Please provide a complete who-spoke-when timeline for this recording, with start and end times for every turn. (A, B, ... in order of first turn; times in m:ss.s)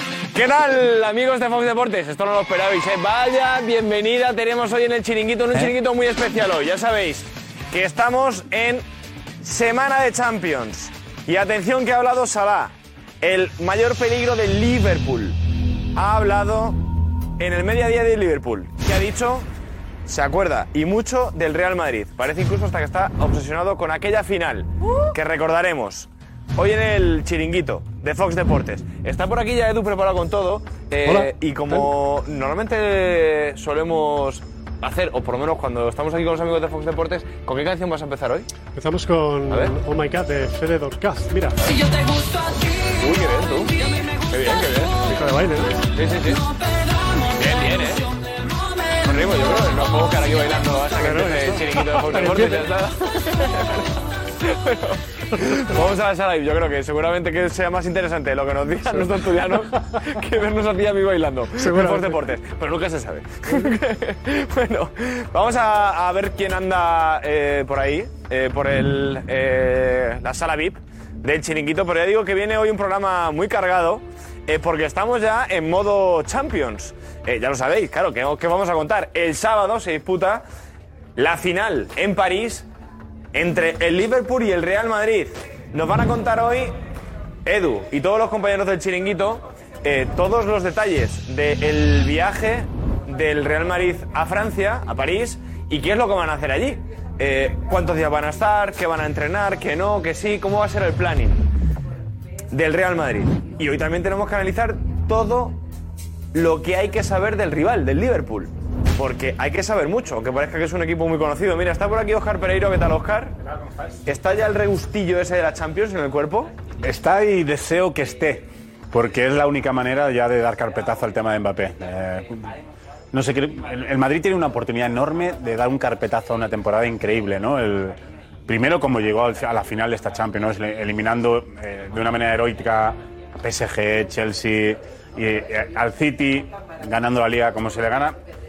0:00.3-0:08.8 A
0:09.4-0:15.4 A
0:16.0-0:16.8 A
0:17.4-0:19.5 A
0:20.0-0:38.5 A
0:31.0-0:31.9 B
0:38.7-0:41.6 B
0:39.5-0:39.8 A
0:43.0-0:45.2 A
0:45.0-0:45.9 B
0:45.9-0:46.4 A
0:47.3-0:48.0 A
0:49.0-0:53.9 A
0:51.0-0:52.7 B
0:54.4-1:20.4 A
1:01.6-1:02.2 B
1:21.2-1:22.6 A
1:23.3-1:26.7 A
1:27.4-1:41.4 A
1:42.5-1:45.5 A
1:46.3-1:53.3 A
1:54.0-1:56.5 A
1:56.8-2:02.5 C
2:03.1-2:08.0 C
2:08.5-2:18.2 C